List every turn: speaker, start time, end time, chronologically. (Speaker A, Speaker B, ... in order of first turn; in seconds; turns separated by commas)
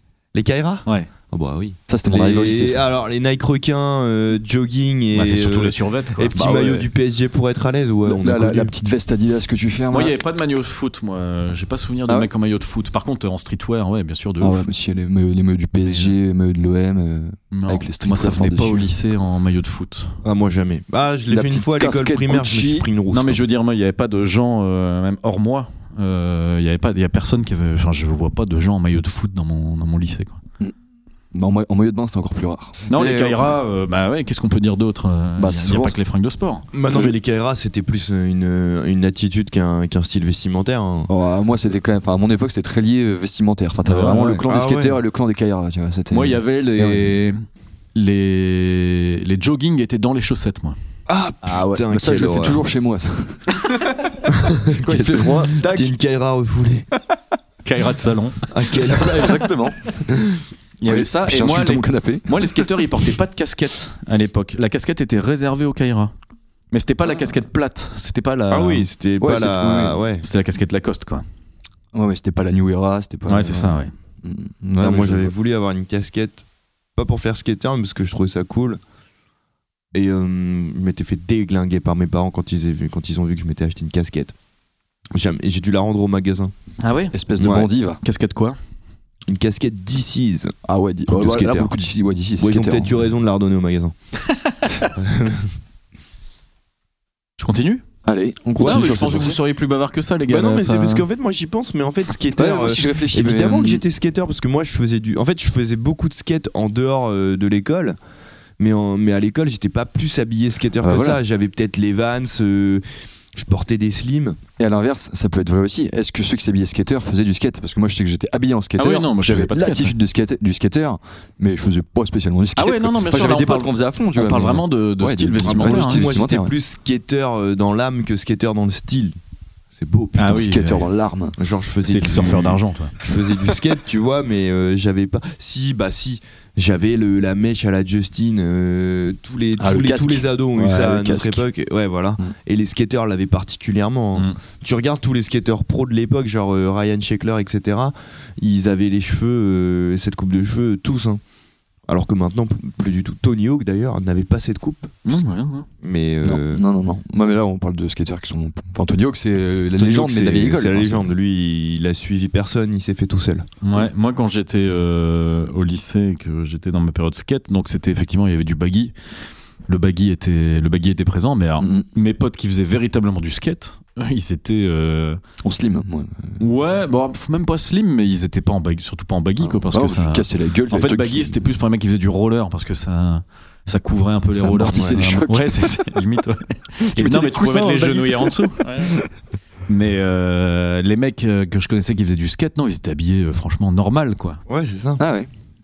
Speaker A: 0.3-8.7, Speaker B: 1.9-2.9, Speaker C: 5.1-6.5, Speaker B: 6.4-6.8, Speaker B: 8.0-10.2, Speaker C: 9.9-14.7, Speaker B: 14.4-18.9, Speaker C: 15.8-16.1, Speaker C: 17.5-20.2, Speaker A: 20.2-23.4, Speaker B: 21.3-22.9, Speaker C: 23.1-30.4, Speaker B: 31.3-33.5, Speaker C: 32.9-36.7, Speaker B: 35.4-36.0, Speaker A: 36.7-41.1, Speaker B: 41.1-47.1, Speaker C: 43.9-44.4, Speaker A: 44.4-45.0, Speaker C: 46.1-47.4, Speaker C: 48.0-50.8, Speaker A: 51.1-52.6, Speaker B: 51.4-53.5, Speaker A: 54.3-56.9, Speaker B: 54.8-55.9, Speaker C: 57.6-58.5, Speaker A: 58.5-59.5, Speaker B: 58.9-59.8, Speaker A: 60.1-60.4, Speaker C: 60.8-66.1, Speaker B: 60.9-62.9, Speaker C: 66.7-68.9, Speaker A: 68.5-70.2, Speaker B: 69.2-70.0, Speaker C: 70.2-71.2, Speaker B: 71.9-75.3, Speaker C: 73.3-73.9, Speaker A: 74.8-76.4, Speaker A: 77.0-78.8, Speaker A: 79.9-84.3, Speaker A: 85.1-86.5, Speaker C: 86.8-87.2, Speaker B: 87.1-88.0, Speaker A: 87.4-87.7, Speaker C: 88.0-88.6, Speaker A: 89.3-90.5, Speaker B: 90.7-92.9, Speaker A: 91.1-91.7, Speaker A: 92.4-93.9, Speaker A: 95.0-95.5, Speaker C: 97.4-97.8, Speaker B: 98.0-99.4, Speaker A: 98.6-99.0, Speaker C: 98.6-101.0, Speaker A: 100.3-108.0, Speaker B: 102.4-103.8, Speaker A: 108.6-112.8, Speaker B: 110.8-111.2, Speaker A: 113.3-114.4, Speaker B: 114.6-126.5, Speaker C: 118.8-119.9, Speaker C: 122.6-126.0, Speaker A: 125.5-129.2, Speaker A: 129.7-130.5, Speaker C: 130.2-130.9, Speaker B: 130.3-131.3, Speaker A: 131.4-151.2, Speaker C: 131.9-132.9, Speaker B: 139.6-141.5, Speaker A: 151.9-155.1, Speaker C: 155.1-155.7, Speaker A: 155.8-156.6, Speaker B: 156.2-161.1, Speaker A: 159.8-163.5, Speaker C: 163.6-168.9, Speaker C: 169.7-175.2, Speaker B: 171.6-171.9, Speaker B: 175.4-176.4, Speaker C: 176.4-188.9, Speaker B: 179.4-181.4, Speaker B: 184.3-185.8, Speaker A: 184.6-185.1, Speaker B: 186.9-189.1, Speaker C: 189.7-194.4, Speaker A: 194.5-195.0, Speaker B: 195.0-195.3